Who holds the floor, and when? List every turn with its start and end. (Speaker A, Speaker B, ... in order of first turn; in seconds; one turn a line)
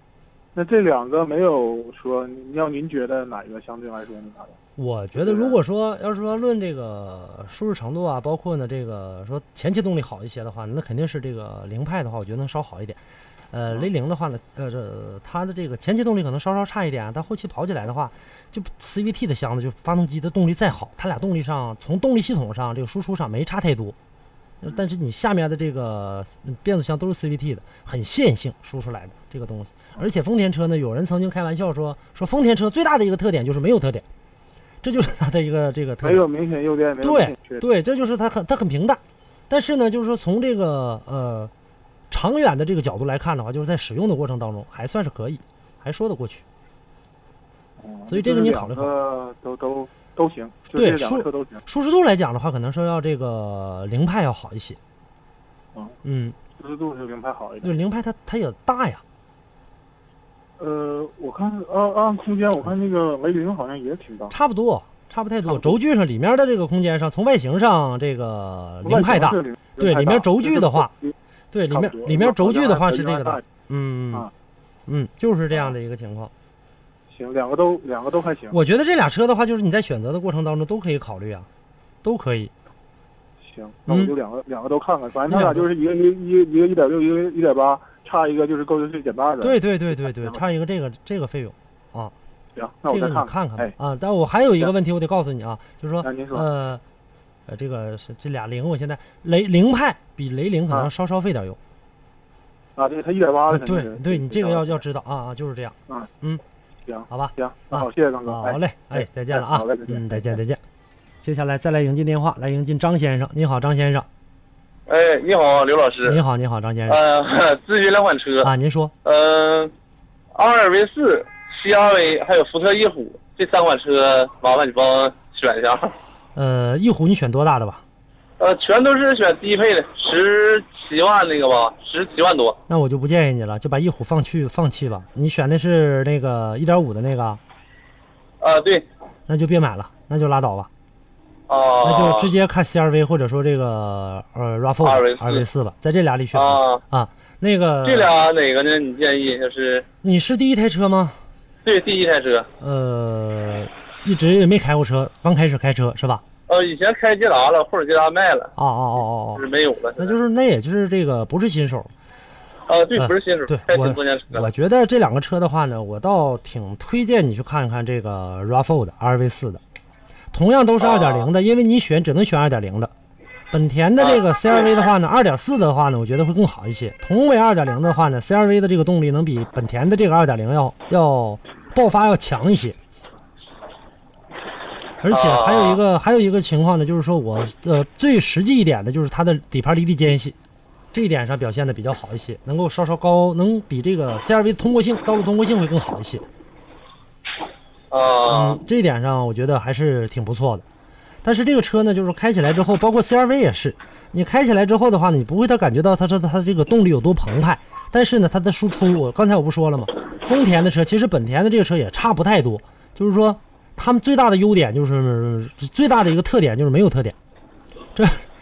Speaker A: 0.5-4.6
Speaker B: 4.8-13.0
Speaker A: 5.2-5.6
Speaker B: 13.5-23.9
Speaker B: 24.6-34.0
Speaker B: 34.8-36.2
Speaker A: 36.0-37.6
Speaker B: 37.0-41.5
Speaker B: 42.1-46.4
Speaker A: 47.8-51.6
Speaker B: 48.1-48.9
Speaker B: 50.7-54.8
Speaker B: 56.0-56.4
Speaker A: 56.6-57.7
Speaker B: 57.6-59.0
Speaker A: 60.6-64.3
Speaker B: 64.3-70.9
Speaker A: 68.8-71.1
Speaker B: 71.5-74.3
Speaker A: 71.7-73.4
Speaker B: 74.9-76.3
Speaker A: 77.1-78.6
Speaker B: 78.5-81.5
Speaker B: 82.0-82.5
Speaker A: 83.4-90.4
Speaker B: 83.9-84.1
Speaker B: 85.3-85.7
Speaker B: 89.4-92.1
Speaker A: 92.5-93.7
Speaker B: 92.9-96.8
Speaker A: 96.0-96.5
Speaker B: 97.5-101.6
Speaker A: 102.8-104.8
Speaker B: 103.5-106.4
Speaker A: 106.8-110.4
Speaker B: 107.1-110.6
Speaker B: 111.2-114.1
Speaker C: 114.9-116.2
Speaker B: 116.0-117.0
Speaker C: 116.9-118.5
Speaker B: 118.4-118.9
Speaker C: 119.0-119.7
Speaker C: 120.3-125.9
Speaker B: 126.3-127.8
Speaker C: 128.4-132.6
Speaker B: 132.7-137.4
Speaker C: 138.4-138.9
Speaker B: 139.3-140.7
Speaker C: 141.5-142.3
Speaker B: 141.8-148.1
Speaker C: 144.8-145.4
Speaker C: 146.3-146.8
Speaker C: 147.8-149.8
Speaker B: 150.0-151.2
Speaker C: 151.6-152.5
Speaker B: 152.6-156.2
Speaker C: 156.5-158.5
Speaker B: 158.6-161.9
Speaker C: 159.3-160.1
Speaker C: 162.7-164.5
Speaker B: 162.9-169.6
Speaker B: 170.3-172.9
Speaker C: 170.8-171.3
Speaker B: 173.5-182.8
Speaker C: 174.0-174.7
Speaker B: 185.0-190.3
Speaker C: 185.1-185.8
Speaker B: 190.9-196.2
Speaker C: 197.9-198.6
Speaker B: 198.3-200.6
Speaker B: 201.2-217.2
Speaker B: 217.9-218.2